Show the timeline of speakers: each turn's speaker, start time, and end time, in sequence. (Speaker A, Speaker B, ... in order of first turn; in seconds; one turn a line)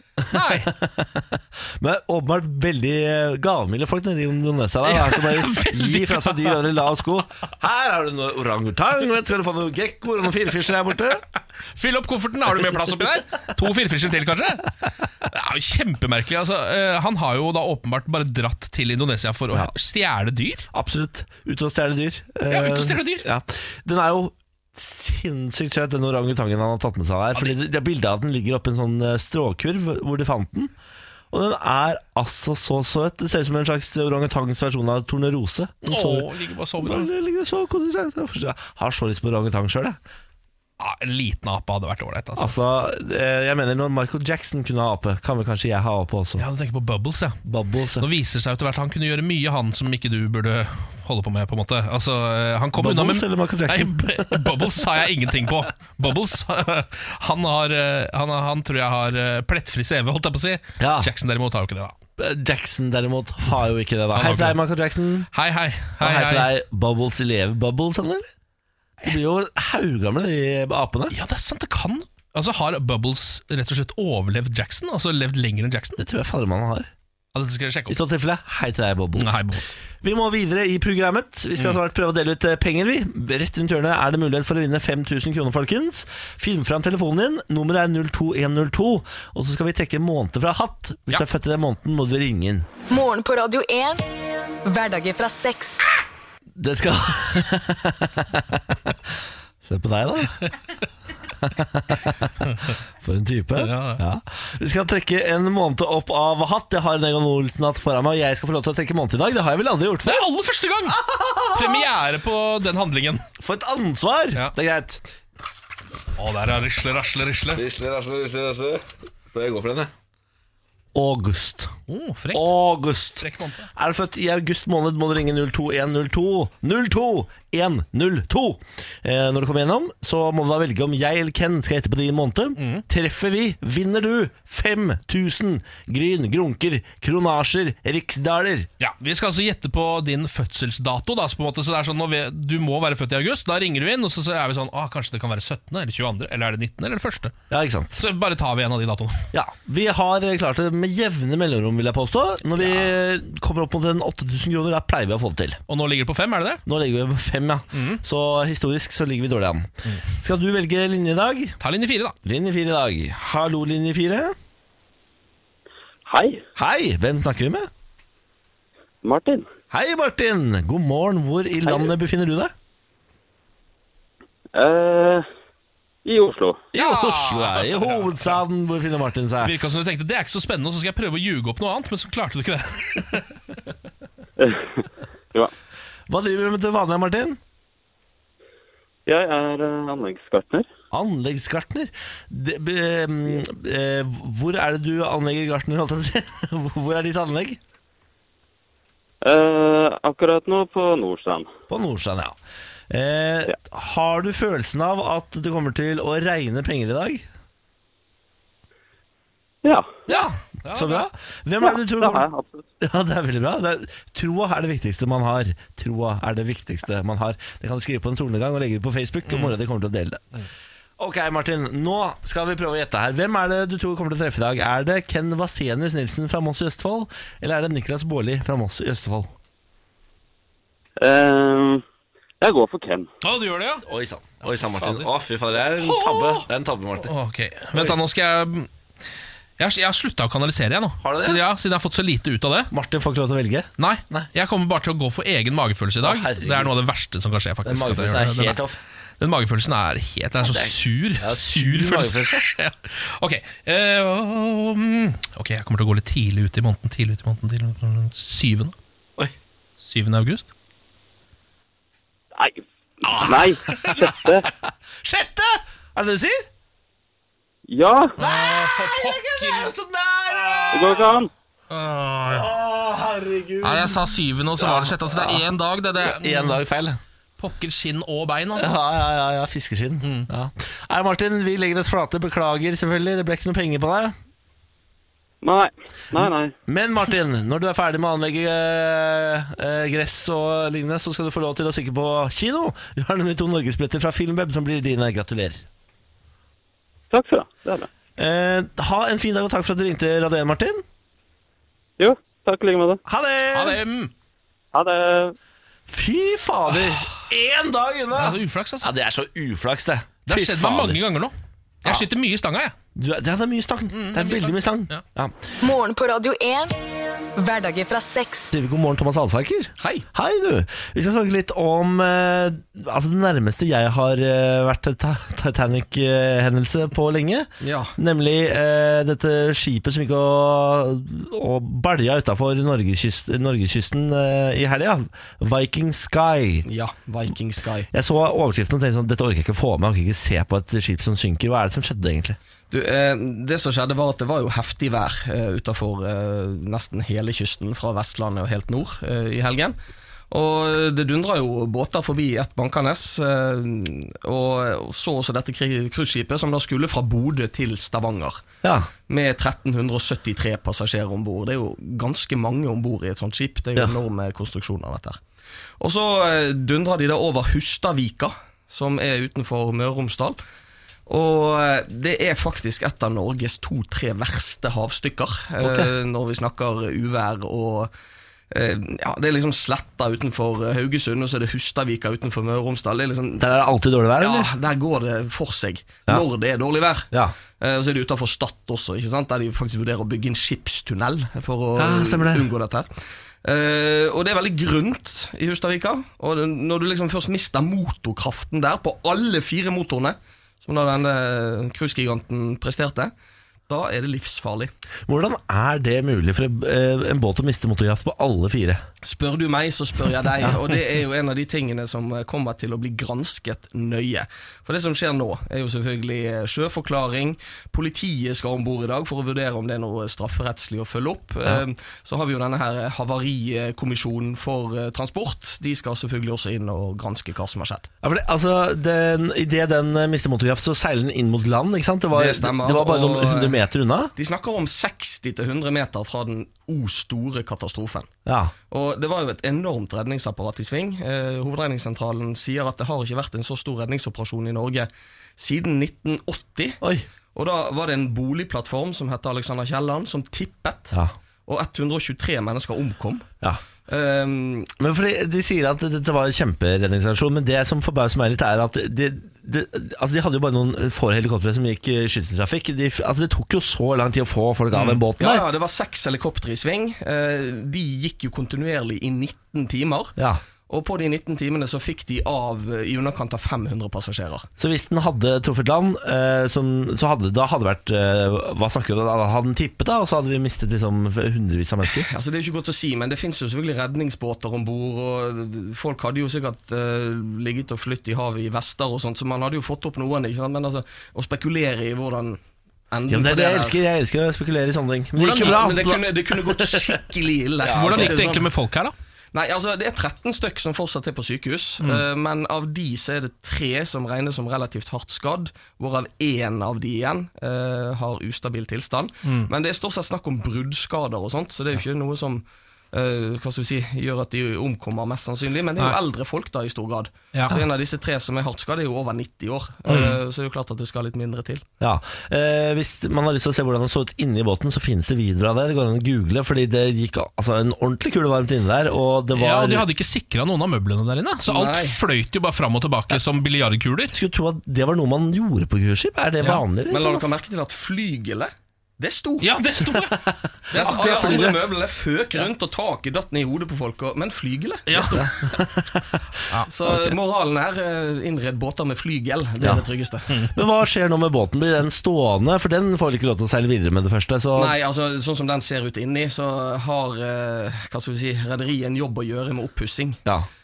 Speaker A: 0.2-11.2
Speaker B: 0.3-0.7
Speaker B: 4.8-6.6
Speaker B: 11.7-14.7
Speaker B: 15.2-20.7
Speaker A: 20.7-30.7
Speaker B: 22.5-23.2
Speaker A: 31.3-36.3
Speaker B: 35.8-37.1
Speaker A: 36.8-40.0
Speaker B: 40.8-42.5
Speaker A: 42.4-46.4
Speaker B: 46.4-47.4
Speaker A: 47.4-48.1
Speaker B: 47.9-62.0
Speaker A: 52.8-54.9
Speaker A: 60.8-61.1
Speaker A: 62.2-65.3
Speaker B: 64.1-64.6
Speaker B: 65.3-66.5
Speaker A: 66.0-68.3
Speaker A: 69.0-71.2
Speaker B: 71.1-76.0
Speaker A: 76.0-76.9
Speaker B: 77.3-78.0
Speaker A: 77.9-79.5
Speaker B: 79.2-79.7
Speaker A: 80.0-92.7
Speaker C: 92.9-94.0
Speaker C: 94.6-95.9
Speaker A: 96.6-98.9
Speaker A: 99.6-100.5
Speaker A: 101.4-102.5
Speaker A: 103.0-110.2
Speaker B: 103.5-104.0
Speaker B: 110.0-111.0
Speaker A: 111.0-111.8
Speaker B: 111.5-113.2
Speaker A: 113.4-115.0
Speaker B: 116.2-117.6
Speaker A: 117.5-119.9
Speaker A: 120.9-121.7
Speaker B: 121.9-122.5
Speaker A: 122.3-138.7
Speaker B: 123.2-123.7
Speaker B: 132.6-132.8
Speaker B: 138.8-147.3
Speaker A: 147.5-148.0
Speaker B: 147.9-149.3
Speaker A: 149.3-155.6
Speaker B: 152.6-152.9
Speaker B: 155.7-156.6
Speaker A: 156.7-161.6
Speaker B: 157.7-158.0
Speaker B: 161.6-162.2
Speaker A: 162.2-164.3
Speaker D: 166.1-166.4
Speaker A: 166.6-167.7
Speaker D: 169.0-169.5
Speaker A: 169.7-172.5
Speaker D: 174.5-175.2
Speaker D: 176.0-176.7
Speaker B: 176.7-178.4
Speaker A: 176.7-179.5
Speaker B: 179.4-183.3
Speaker D: 184.4-185.5
Speaker A: 186.1-187.4
Speaker D: 189.1-190.7
Speaker A: 190.9-197.6
Speaker D: 199.2-201.5
Speaker A: 201.7-202.3
Speaker A: 202.9-207.2
Speaker D: 209.6-209.9
Speaker B: 210.1-211.1
Speaker A: 210.1-212.3
Speaker D: 211.6-212.6
Speaker A: 212.8-220.3
Speaker A: 221.0-229.3
Speaker D: 231.0-231.8
Speaker D: 232.4-233.1
Speaker B: 233.2-233.8
Speaker A: 233.8-237.1
Speaker B: 234.4-235.1
Speaker B: 235.8-236.5
Speaker B: 237.0-238.7
Speaker A: 237.7-238.0
Speaker B: 239.6-242.7
Speaker A: 241.0-241.4
Speaker A: 242.7-244.3
Speaker B: 243.8-248.6
Speaker A: 246.0-246.8
Speaker A: 247.6-248.8
Speaker B: 249.2-258.7
Speaker A: 250.4-252.5
Speaker B: 259.8-260.5
Speaker D: 262.3-264.5
Speaker B: 263.7-264.1
Speaker A: 263.8-264.5
Speaker A: 265.0-266.4
Speaker D: 267.7-268.1
Speaker B: 268.2-269.7
Speaker A: 268.2-271.2
Speaker D: 270.7-271.3
Speaker B: 271.7-272.5
Speaker A: 272.2-275.4
Speaker B: 273.6-276.6
Speaker A: 276.0-277.0
Speaker B: 277.4-278.8
Speaker A: 278.6-284.1
Speaker B: 280.0-280.3
Speaker D: 285.4-286.5
Speaker A: 286.7-295.6
Speaker D: 297.1-297.9
Speaker A: 298.2-300.8
Speaker D: 302.0-303.0
Speaker A: 303.1-303.8
Speaker B: 303.5-304.1
Speaker D: 304.7-305.3
Speaker A: 305.9-311.0
Speaker B: 306.7-307.0
Speaker B: 308.1-308.9
Speaker B: 310.3-312.7
Speaker A: 312.9-315.3
Speaker B: 313.9-315.0
Speaker C: 315.6-316.8
Speaker C: 317.4-318.5
Speaker A: 318.5-336.6
Speaker E: 319.8-320.1
Speaker E: 327.6-327.9
Speaker E: 336.6-337.9
Speaker A: 337.9-342.4
Speaker E: 342.7-349.8
Speaker E: 350.3-358.4
Speaker A: 358.6-358.9
Speaker E: 359.1-365.2
Speaker E: 365.8-370.4
Speaker E: 371.1-377.9
Speaker A: 375.6-375.9
Speaker E: 378.5-383.4
Speaker A: 383.4-384.5
Speaker E: 384.2-392.9
Speaker A: 391.8-392.5
Speaker E: 393.4-403.1
Speaker E: 403.7-404.7
Speaker A: 405.1-408.8
Speaker E: 409.0-427.9
Speaker A: 428.0-434.1
Speaker E: 432.1-433.6
Speaker E: 434.1-438.1
Speaker A: 438.2-438.5
Speaker E: 438.7-446.8
Speaker A: 446.8-447.1
Speaker E: 447.3-450.9
Speaker E: 451.5-453.3
Speaker E: 453.9-454.7
Speaker A: 454.8-465.4
Speaker E: 464.7-470.1
Speaker E: 470.7-474.5
Speaker A: 474.6-482.1
Speaker E: 481.9-492.4
Speaker E: 492.9-493.8
Speaker A: 493.1-497.0
Speaker E: 495.2-498.5
Speaker A: 497.6-498.2
Speaker B: 497.7-498.9
Speaker E: 499.3-521.6
Speaker B: 509.2-509.5
Speaker B: 517.3-517.6
Speaker B: 519.9-520.2
Speaker A: 521.8-529.9
Speaker B: 529.3-534.1
Speaker E: 531.5-532.0
Speaker A: 534.1-537.3
Speaker E: 536.9-539.5
Speaker B: 539.4-541.4
Speaker A: 540.1-541.6
Speaker E: 540.7-545.1
Speaker B: 544.9-545.7
Speaker A: 545.1-546.2
Speaker E: 546.6-550.4
Speaker A: 550.5-554.7
Speaker E: 554.5-560.2